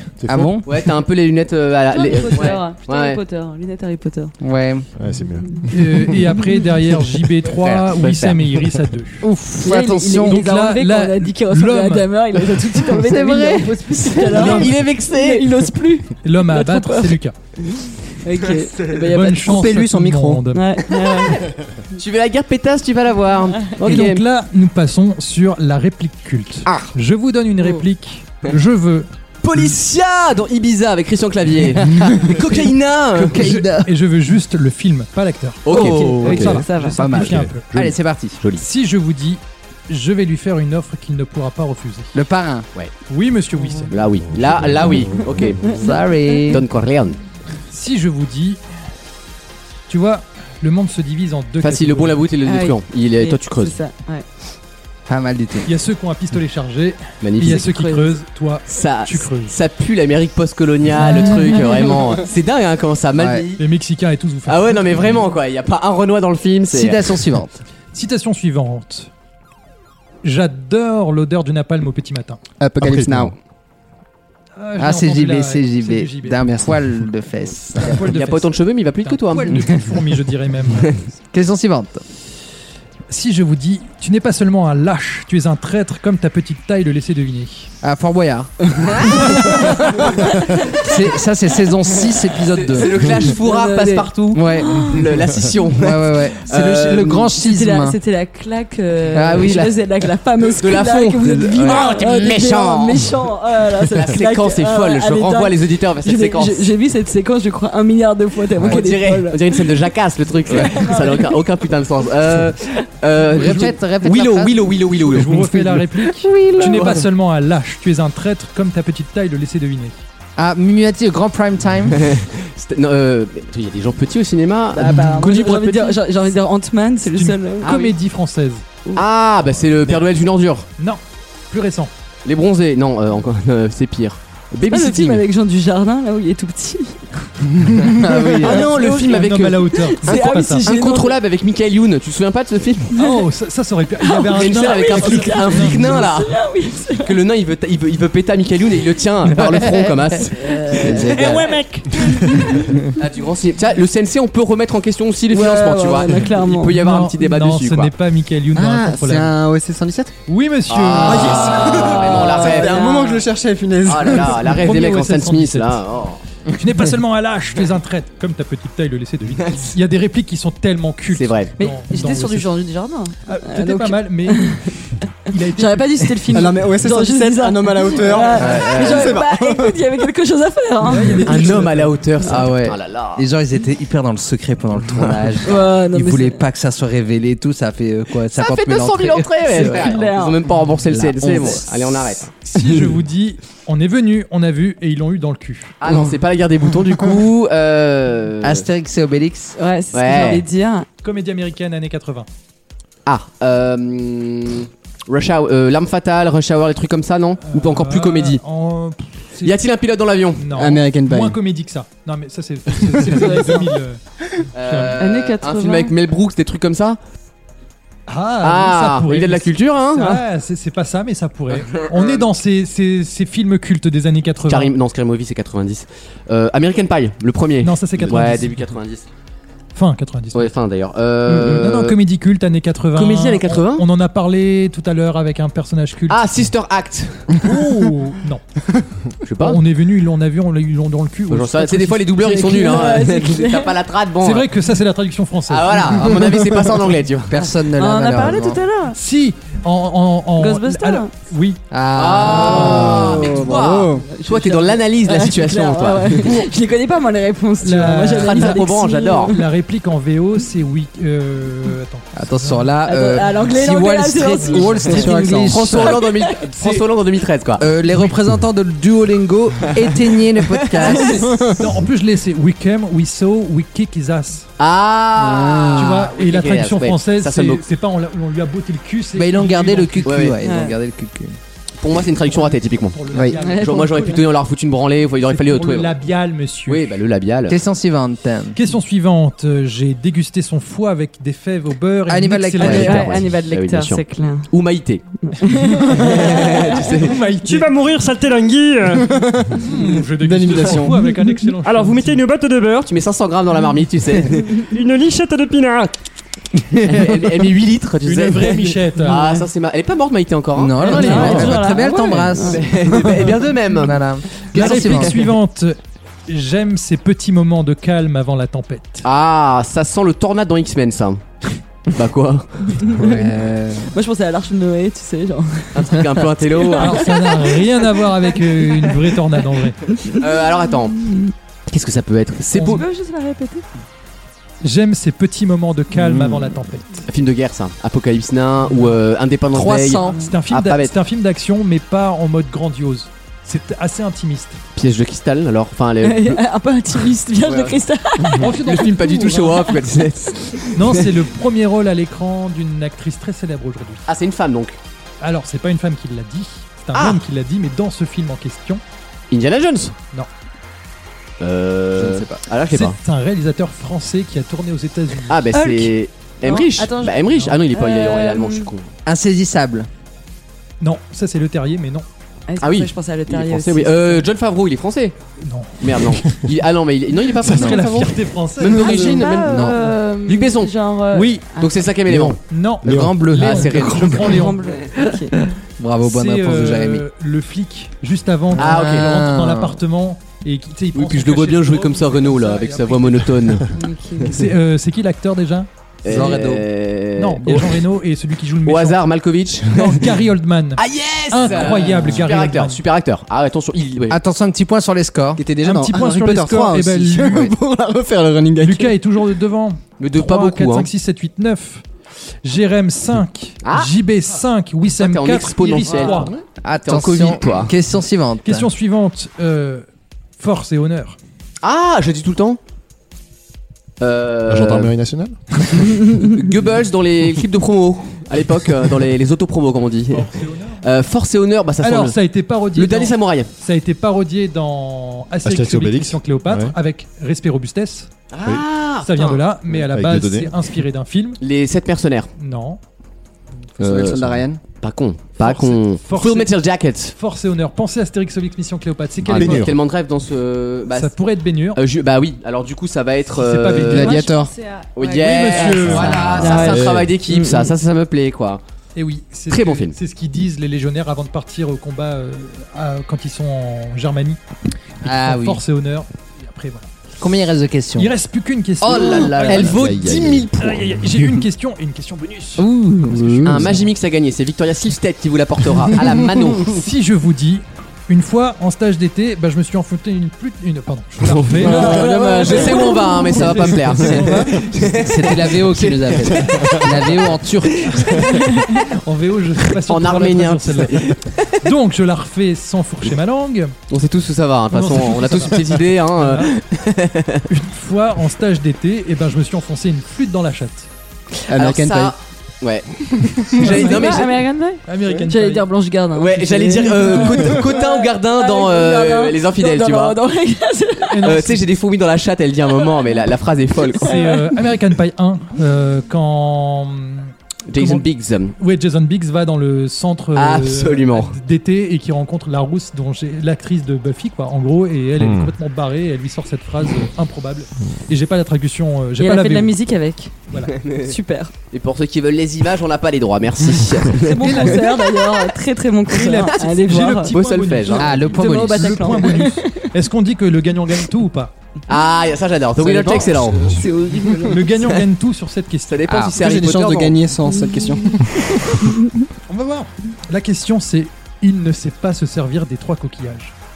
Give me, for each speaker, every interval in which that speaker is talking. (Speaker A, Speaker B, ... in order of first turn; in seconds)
Speaker A: 0.2-0.6, 5.0-6.0, 44.2-45.5, 72.8-73.3, 382.1-383.2, 424.5-425.4, 435.4-436.7, 439.7-440.5, 444.1-444.4, 449.3-449.7, 456.2-457.1, 525.2-525.5
Speaker B: 0.3-0.6, 4.4-4.8, 9.2-10.4, 12.9-14.4, 31.9-32.3, 33.2-33.9, 37.0-38.4, 42.1-42.7, 45.7-46.6, 55.1-55.7, 63.1-63.5, 66.7-67.5, 74.8-78.0, 81.3-82.0, 87.8-90.1, 90.7-93.2, 94.3-94.9, 95.7-98.0, 99.1-99.7, 101.5-101.9, 113.3-114.7, 115.3-117.0, 120.4-122.1, 137.9-138.7, 150.8-151.4, 158.8-159.1, 178.4-178.8, 182.2-190.0, 190.9-192.0, 198.4-199.6, 247.3-248.6, 251.7-253.3, 262.1-266.0, 267.6-271.3, 275.2-276.0, 279.1-281.4, 287.5-288.6, 292.1-293.1, 310.5-312.6, 313.8-315.3, 339.5-340.1, 361.9-362.4, 369.1-369.9, 377.5-377.8, 379.4-379.8, 382.8-384.3, 385.8-387.0, 388.5-389.8, 396.1-396.6, 404.1-405.4, 416.6-418.7, 465.0-465.6, 467.2-468.1, 468.8-469.9, 472.6-473.7, 484.8-488.1, 538.0-539.0, 542.8-543.5, 546.1-546.4
Speaker C: 0.6-3.2, 7.4-8.7, 14.3-15.5, 21.9-24.2, 26.6-26.9, 29.4-33.4, 35.6-36.6, 37.7-38.6, 43.9-45.7, 46.5-47.2, 51.6-53.8, 57.2-57.7, 58.7-63.6, 64.5-67.1, 77.9-79.7, 92.5-97.3, 100.6-103.1, 103.9-106.7, 108.6-115.5, 116.6-117.0, 121.9-125.9, 127.6-127.9, 128.9-130.7, 132.2-135.2, 138.0-142.9, 144.3-146.3, 147.0-151.5, 152.8-157.9, 160.7-162.8, 163.8-166.2, 171.1-171.5, 178.2-179.3, 181.2-183.2, 184.9-185.3, 188.3-192.3, 195.8-198.6, 199.9-200.4, 203.1-208.4, 209.4-210.4, 214.5-217.0, 218.4-220.2, 221.5-222.2, 224.5-229.1, 230.3-232.0, 232.9-233.8, 236.1-237.4, 239.2-239.6, 241.3-244.5, 245.5-247.4, 251.9-256.4, 258.1-259.3, 265.5-267.6, 270.6-271.0, 274.6-277.6, 280.0-280.4, 281.8-285.9, 286.7-287.6, 292.6-295.0, 295.9-297.2, 302.9-304.7, 306.7-314.0, 319.0-322.9, 325.7-327.1, 330.1-331.0, 331.7-332.8, 337.1-340.9, 344.8-346.4, 347.4-351.1, 354.1-354.8, 356.9-357.2, 359.3-359.9, 361.4-363.0, 365.3-368.9, 372.6-375.1, 375.8-380.7, 381.6-382.4, 383.3-384.4, 388.6-389.2, 390.9-393.7, 396.0-397.8, 398.6-400.1, 400.8-404.2, 410.0-410.9, 413.6-413.9, 415.0-417.7, 421.6-422.6, 424.0-424.9, 426.2-432.2, 432.7-433.5, 438.3-439.4, 441.4-442.3, 443.8-444.2, 444.8-447.1, 449.3-451.1, 451.7-454.2, 454.9-458.6, 459.5-459.9, 468.8-470.9, 473.4-476.8, 481.2-488.3, 489.8-491.6, 493.9-497.4, 501.5-504.4, 506.1-510.2, 511.2-514.1, 517.7-518.5, 520.3-521.4, 530.7-531.1, 531.7-535.0, 536.5-538.1, 541.9-543.8, 545.9-547.2
Speaker D: 1.9-4.3, 9.6-19.6, 20.5-21.4, 35.7-37.1, 52.4-54.2, 57.4-58.1, 61.6-62.0, 93.3-95.0, 97.4-109.8, 110.5-111.4, 124.7-127.9, 134.7-137.3, 138.8-139.2, 139.7-141.2, 142.9-143.2, 144.0-147.2, 150.3-151.4, 152.1-152.6, 155.3-156.8, 162.0-163.2, 171.6-174.7, 175.5-181.5, 185.4-186.4, 189.5-190.4, 199.6-200.9, 213.2-213.6, 215.0-215.9, 242.2-243.8, 247.8-248.9, 250.4-251.1, 254.0-259.4, 262.8-266.4, 270.9-271.2, 280.4-280.8, 283.4-284.2, 292.6-294.5, 295.2-296.8, 309.1-309.4, 310.9-312.6, 322.8-323.2, 323.9-327.6, 332.6-333.6, 346.0-348.5, 365.5-365.9, 366.4-368.7, 372.5-374.2, 378.7-381.8, 384.2-385.3, 393.7-394.4, 453.9-457.7, 481.7-483.2, 488.4-488.7, 503.7-511.2, 513.9-514.6, 529.2-530.3, 530.9-531.5, 534.1-537.3, 538.4-539.8, 543.7-544.7, 547.5-548.0, 548.9-549.1
Speaker E: 5.7-9.2, 10.2-12.1, 14.3-14.7, 16.2-17.3, 18.9-20.8, 23.8-29.7, 33.2-37.7, 38.6-42.1, 43.1-43.9, 47.7-48.6, 49.9-52.2, 55.6-59.5, 61.0-61.6, 63.6-65.0, 67.9-69.1, 70.2-72.4, 74.6-76.4, 77.8-80.9, 83.1-87.7, 115.1-120.0, 125.2-125.8, 127.0-128.6, 130.8-131.9, 138.6-140.7, 142.9-146.0, 151.2-151.9, 156.7-159.3, 160.3-161.7, 164.3-165.8, 166.5-172.5, 173.3-174.7, 175.3-176.5, 180.9-181.9, 192.4-195.7, 201.0-202.3, 207.4-209.6, 210.3-214.0, 214.5-215.0, 218.1-224.7, 227.6-228.8, 229.7-230.5, 231.3-236.2, 237.3-238.4, 239.4-242.1, 244.2-246.0, 248.9-251.6, 257.6-258.6, 259.3-262.7, 264.4-264.7, 266.6-266.8, 271.6-274.5, 275.8-280.2, 282.9-284.2, 285.3-286.9, 288.5-293.1, 295.6-297.7, 299.6-302.2, 308.0-309.3, 310.9-311.5, 314.5-319.0, 326.7-329.8, 332.5-332.8, 334.6-337.1, 338.6-339.0, 340.2-344.6, 348.3-349.8, 350.7-354.0, 355.2-358.8, 362.7-365.4, 367.3-367.6, 370.8-372.1, 375.4-375.9, 377.4-379.1, 381.1-381.4, 382.5-384.6, 386.0-393.6, 394.2-395.7, 397.2-399.0, 399.7-402.8, 405.6-407.5, 408.6-411.8, 412.4-416.3, 418.4-419.8, 420.4-421.2, 430.1-430.8, 431.8-438.1, 439.0-441.4, 442.4-442.8, 445.4-446.6, 447.1-449.7, 450.9-451.8, 453.3-454.3, 455.2-456.6, 458.9-464.4, 465.0-466.9, 468.0-472.6, 476.6-484.7, 488.7-493.7, 494.7-496.5, 497.5-500.9, 503.6-504.3, 504.9-505.7, 511.1-511.6, 514.0-518.0, 518.6-529.7, 534.4-535.2, 536.1-541.5, 544.5-546.0, 549.5-553.5
Speaker F: 18.9-20.4, 72.6-73.3, 76.4-76.8, 158.6-160.1, 161.0-164.7, 176.3-179.8, 210.5-211.4, 252.5-254.0, 264.9-265.7, 275.2-275.6, 299.0-301.1, 323.0-323.8, 405.4-408.9, 443.8-444.6, 453.8-454.5, 469.1-470.3, 473.1-473.7, 481.9-482.4, 501.5-502.1, 546.4-548.4
Speaker G: 297.4-299.1, 301.6-302.9, 304.7-305.9